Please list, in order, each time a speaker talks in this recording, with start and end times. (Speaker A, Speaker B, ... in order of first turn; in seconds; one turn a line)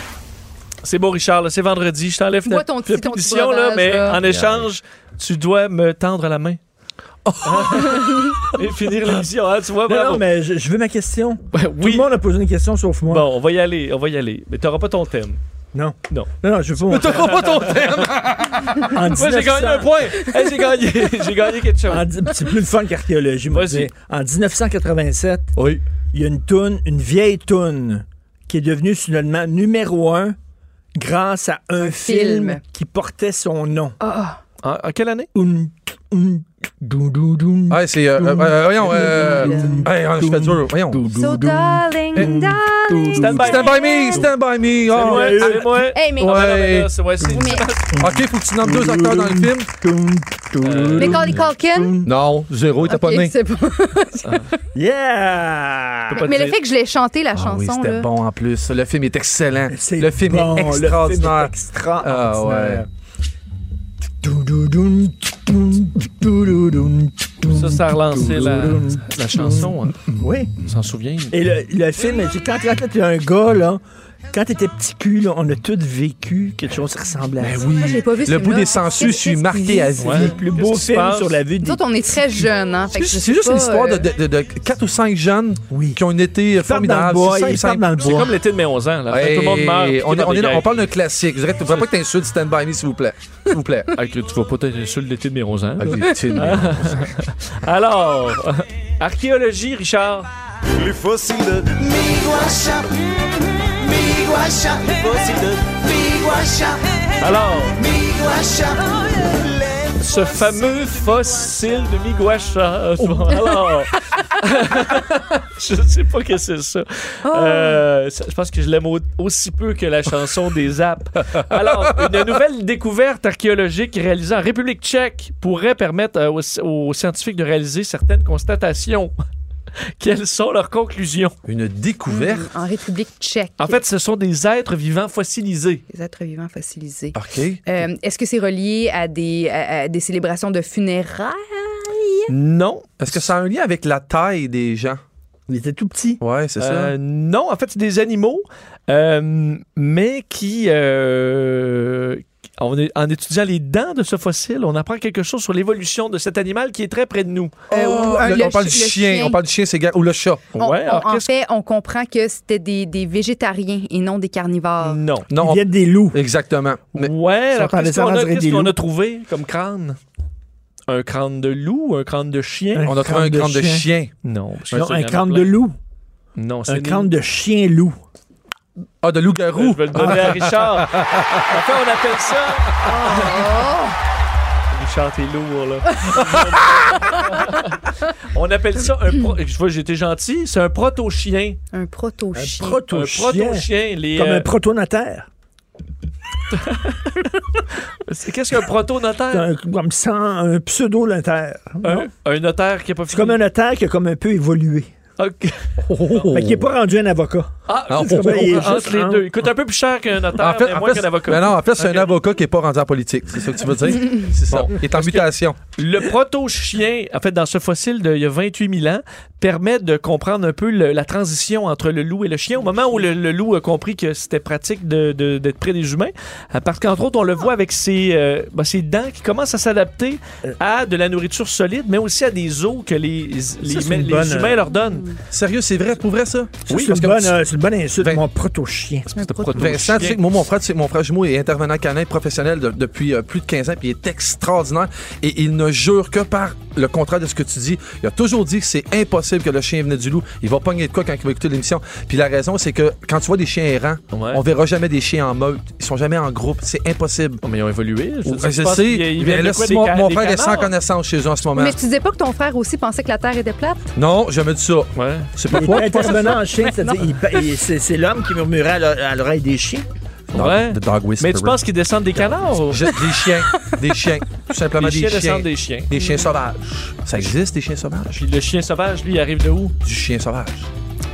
Speaker A: 0.8-6.6
Speaker B: 2.5-4.2
Speaker C: 4.2-4.6
Speaker C: 7.2-8.0
Speaker A: 7.4-10.2
Speaker B: 8.0-8.5
Speaker D: 9.8-13.3
Speaker A: 11.5-12.1
Speaker A: 13.1-15.4
Speaker D: 15.7-17.4
Speaker C: 16.9-18.9
Speaker A: 17.2-18.1
Speaker D: 18.8-20.1
Speaker A: 18.8-22.1
Speaker D: 21.9-25.6
Speaker A: 23.5-23.9
Speaker D: 26.1-30.4
Speaker D: 30.9-34.0
Speaker B: 31.8-32.6
Speaker B: 34.0-34.4
Speaker A: 34.6-35.3
Speaker D: 35.3-44.3
Speaker C: 37.7-41.0
Speaker B: 38.9-39.9
Speaker B: 41.0-44.2
Speaker C: 42.1-42.4
Speaker A: 43.2-43.9
Speaker C: 43.2-45.5
Speaker A: 44.9-48.0
Speaker D: 45.0-45.8
Speaker B: 45.3-46.5
Speaker C: 46.1-46.9
Speaker B: 47.2-47.8
Speaker D: 47.9-52.1
Speaker C: 48.0-49.7
Speaker A: 50.6-51.2
Speaker B: 50.9-52.0
Speaker C: 52.0-53.3
Speaker B: 52.8-54.5
Speaker D: 54.7-56.3
Speaker A: 56.1-56.6
Speaker B: 56.1-58.1
Speaker C: 57.3-62.8
Speaker D: 59.7-62.9
Speaker D: 64.2-70.5
Speaker A: 67.5-69.9
Speaker C: 69.3-70.3
Speaker A: 70.6-71.3
Speaker D: 71.3-77.6
Speaker C: 77.4-80.4
Speaker B: 77.5-80.3
Speaker A: 80.0-81.4
Speaker D: 80.1-81.8
Speaker B: 81.6-84.1
Speaker C: 82.9-88.3
Speaker D: 85.7-86.0
Speaker D: 86.6-88.3
Speaker A: 88.0-90.8
Speaker C: 89.1-93.9
Speaker A: 93.9-100.3
Speaker C: 95.8-97.1
Speaker B: 96.0-96.6
Speaker E: 100.8-111.9
Speaker A: 107.2-107.8
Speaker A: 110.0-129.1
Speaker B: 117.2-117.8
Speaker A: 130.0-131.3
Speaker C: 131.4-132.5
Speaker B: 132.1-133.8
Speaker A: 133.6-135.8
Speaker B: 135.9-142.3
Speaker C: 137.1-137.6
Speaker A: 142.3-143.3
Speaker C: 143.0-145.0
Speaker D: 145.5-146.2
Speaker C: 146.2-146.9
Speaker A: 146.6-157.6
Speaker B: 157.7-159.4
Speaker C: 157.7-160.6
Speaker A: 160.6-161.3
Speaker B: 160.6-165.0
Speaker A: 164.8-165.3
Speaker C: 165.3-167.1
Speaker D: 165.3-166.2
Speaker A: 166.9-170.0
Speaker D: 167.5-168.8
Speaker A: 170.9-172.9
Speaker D: 172.7-173.9
Speaker C: 172.8-174.1
Speaker A: 174.2-175.6
Speaker D: 174.7-175.8
Speaker A: 176.3-177.1
Speaker D: 176.7-178.0
Speaker C: 179.0-181.6
Speaker A: 179.5-183.4
Speaker D: 179.9-180.4
Speaker B: 182.8-183.9
Speaker A: 184.7-187.8
Speaker C: 186.4-186.9
Speaker A: 188.3-191.6
Speaker B: 191.7-192.8
Speaker D: 192.3-195.3
Speaker A: 192.9-194.5
Speaker A: 196.5-197.3
Speaker A: 198.1-199.5
Speaker D: 199.3-202.1
Speaker A: 201.8-203.4
Speaker D: 203.1-204.9
Speaker A: 205.2-205.6
Speaker C: 205.8-206.7
Speaker D: 206.3-209.3
Speaker A: 207.7-212.1
Speaker C: 207.9-208.7
Speaker C: 210.3-215.6
Speaker A: 214.5-235.1
Speaker D: 233.6-234.6
Speaker B: 234.8-235.2
Speaker C: 235.3-237.3
Speaker D: 236.7-239.1
Speaker A: 239.1-240.2
Speaker B: 239.1-239.8
Speaker C: 239.5-257.4
Speaker A: 254.1-254.4
Speaker A: 257.4-260.7
Speaker C: 258.2-261.8
Speaker B: 261.5-263.9
Speaker C: 263.9-266.4
Speaker A: 264.9-265.3
Speaker D: 265.5-269.9
Speaker B: 266.3-267.5
Speaker C: 270.3-271.6
Speaker A: 270.3-272.9
Speaker C: 272.2-278.2
Speaker A: 274.8-275.9
Speaker B: 275.9-276.3
Speaker A: 278.1-279.7
Speaker C: 279.8-280.7